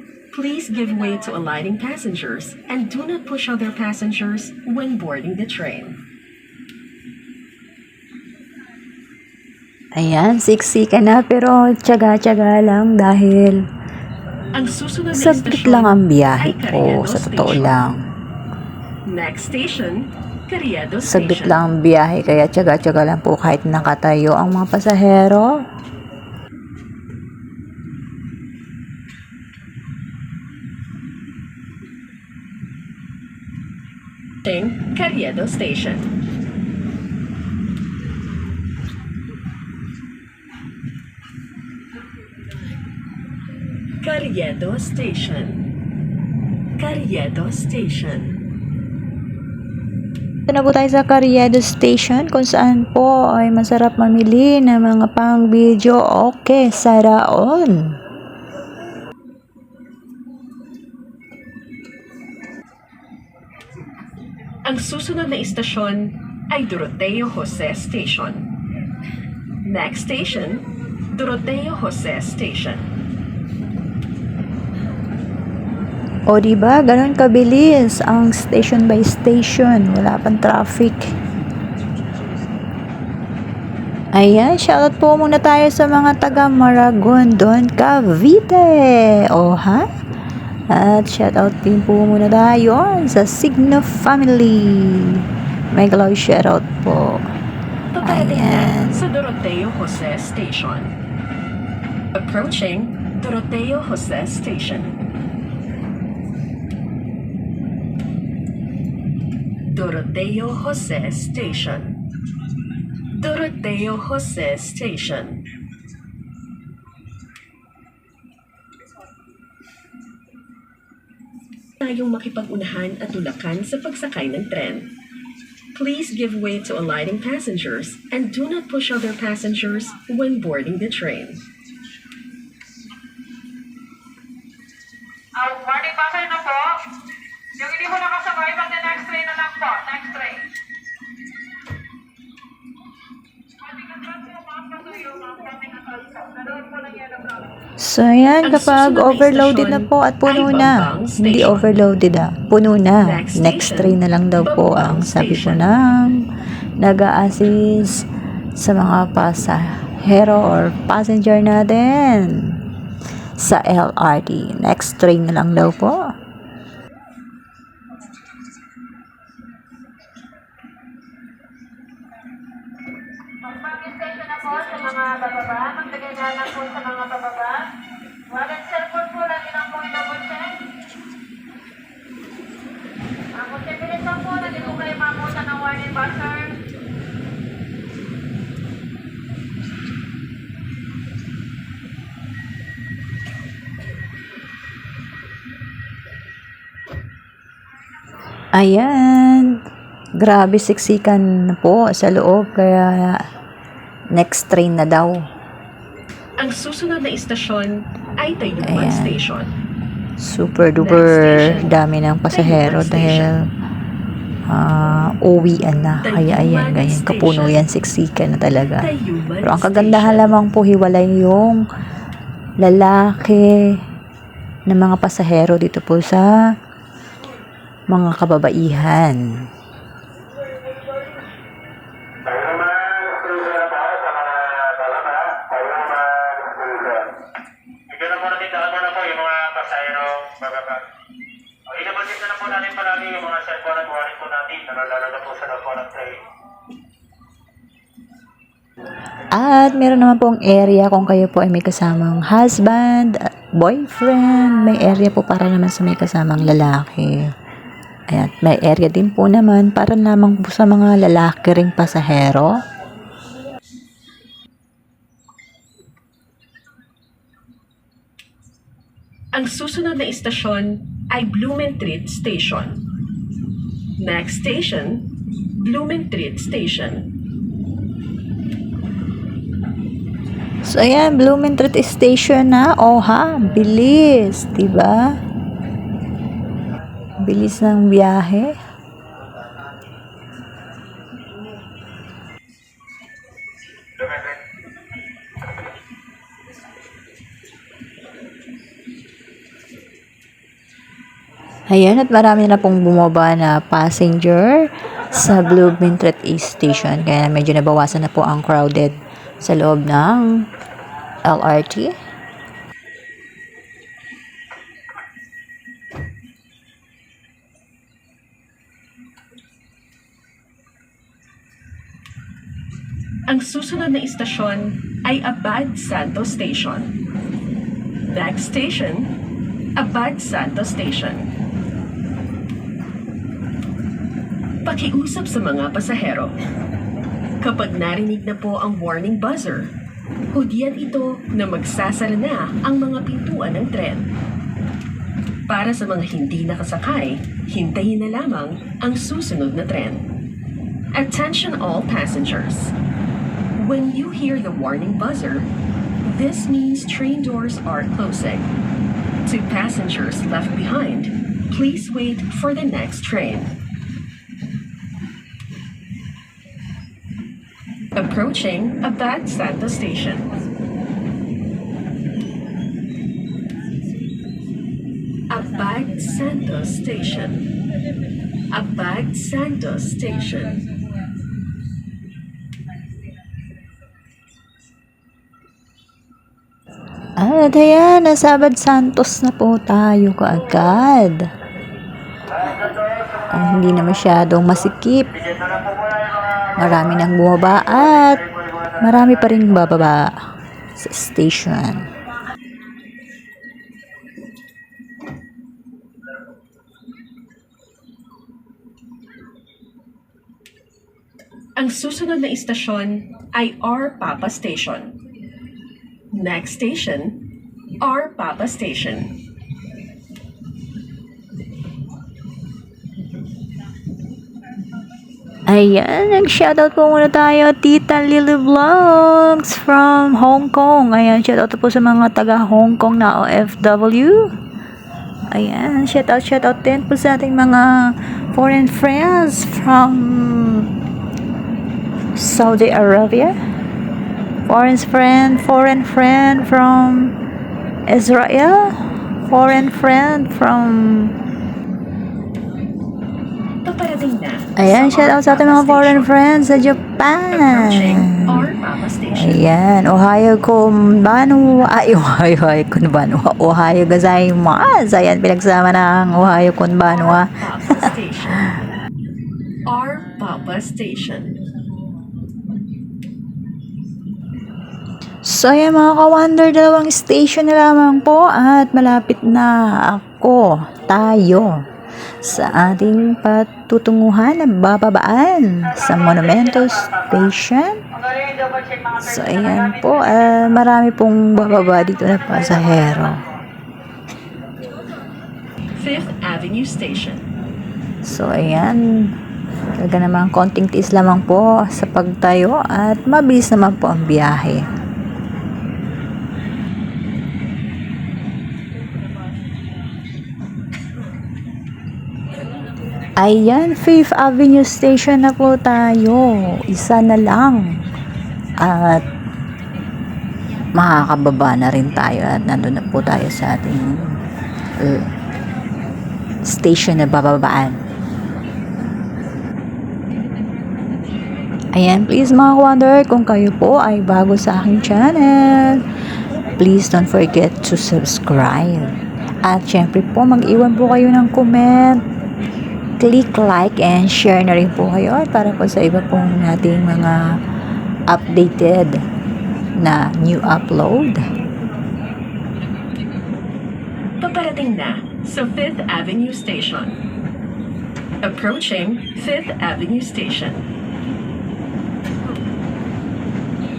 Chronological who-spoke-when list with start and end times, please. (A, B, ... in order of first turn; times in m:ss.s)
0:00.3-0:06.0 A
0:09.9-0:13.6 B
0:14.5-0:17.8 A
0:15.1-0:18.0 B
0:19.1-0:21.6 A
0:21.0-0:25.6 B
0:34.4-0:36.1 A
0:44.0-0:45.6 A
0:46.8-0:48.4 A
0:50.5-0:58.0 B
1:04.6-1:08.5 A
1:09.6-1:12.8 A
1:16.3-1:21.1 B
1:24.1-1:29.9 B
1:30.7-1:37.3 B
1:37.9-1:40.9 A
1:38.0-1:39.0 B
1:42.1-1:45.0 A
1:49.7-1:52.0 A
1:53.1-1:55.4 A
2:01.8-2:04.9 A
2:05.7-2:11.4 A
2:15.4-2:16.9 C
2:17.6-2:20.4 C
2:23.7-2:27.3 C
2:27.8-2:42.6 B
2:28.4-2:31.8 A
2:33.0-2:35.8 A
2:43.4-2:46.1 B
2:53.4-2:57.7 C
2:58.3-3:00.6 C
3:03.3-3:06.6 C
3:18.5-3:19.6 B
3:20.2-3:23.2 B
3:24.1-3:25.3 B
3:26.4-3:29.5 A
3:28.6-3:29.2 B
3:30.2-3:33.5 B
3:30.8-3:31.8 A
3:32.3-3:33.3 A
3:34.5-3:38.9 B
3:36.0-3:37.6 A
3:38.8-3:40.4 A
3:39.4-3:41.6 B
3:42.6-3:43.8 B
3:44.7-3:46.4 B
3:47.9-3:49.4 B
3:52.3-3:57.0 C
3:57.9-4:00.8 C
4:01.7-4:06.2 C
4:09.3-4:17.3 B
4:18.1-4:22.5 B
4:29.3-4:32.8 A
4:34.0-4:37.1 A
4:40.6-4:45.2 B
4:47.2-4:48.6 B
5:01.7-5:10.5 B
5:11.2-5:12.0 B
5:23.3-5:26.9 A
5:28.1-5:29.1 A
5:29.8-5:31.3 A
5:34.6-5:36.3 A
5:37.4-5:39.7 A
5:40.3-5:44.1 A
5:45.5-5:50.0 A
5:50.9-5:52.7 A
5:53.6-5:55.5 A
5:56.0-5:58.5 A
5:59.2-6:03.5 A
6:08.0-6:10.3 A
6:15.3-6:17.4 A
6:18.5-6:20.6 A
6:27.2-6:31.3 B
6:33.3-6:35.1 B
6:36.6-6:40.1 B
6:40.8-6:41.9 B
6:51.6-6:55.0 A
6:56.1-6:57.2 A
6:57.8-6:59.2 A
7:05.5-7:14.4 B
7:15.3-7:20.7 B
7:22.1-7:23.4 B
7:24.5-7:27.1 B
7:27.9-7:31.1 B
7:33.6-7:36.1 A
7:34.6-7:38.5 B
7:37.3-7:39.4 A
7:39.1-7:47.9 B
7:46.9-7:48.6 A
7:49.7-7:51.4 A
7:55.2-8:01.7 B
8:02.2-8:07.8 B
8:07.9-8:10.1 C
8:09.0-8:13.2 B
8:15.8-8:17.3 A
8:18.0-8:19.1 B
8:19.7-8:24.6 B
8:33.2-8:37.8 B
8:38.6-8:39.1 B
8:40.7-8:44.2 B
8:44.8-8:45.1 B
8:46.4-8:47.8 B
8:51.7-8:55.8 B
8:56.6-9:02.0 B
9:03.0-9:07.4 B
9:08.1-9:09.0 B
9:09.8-9:11.2 B
9:14.2-9:17.0 A
9:18.2-9:20.7 A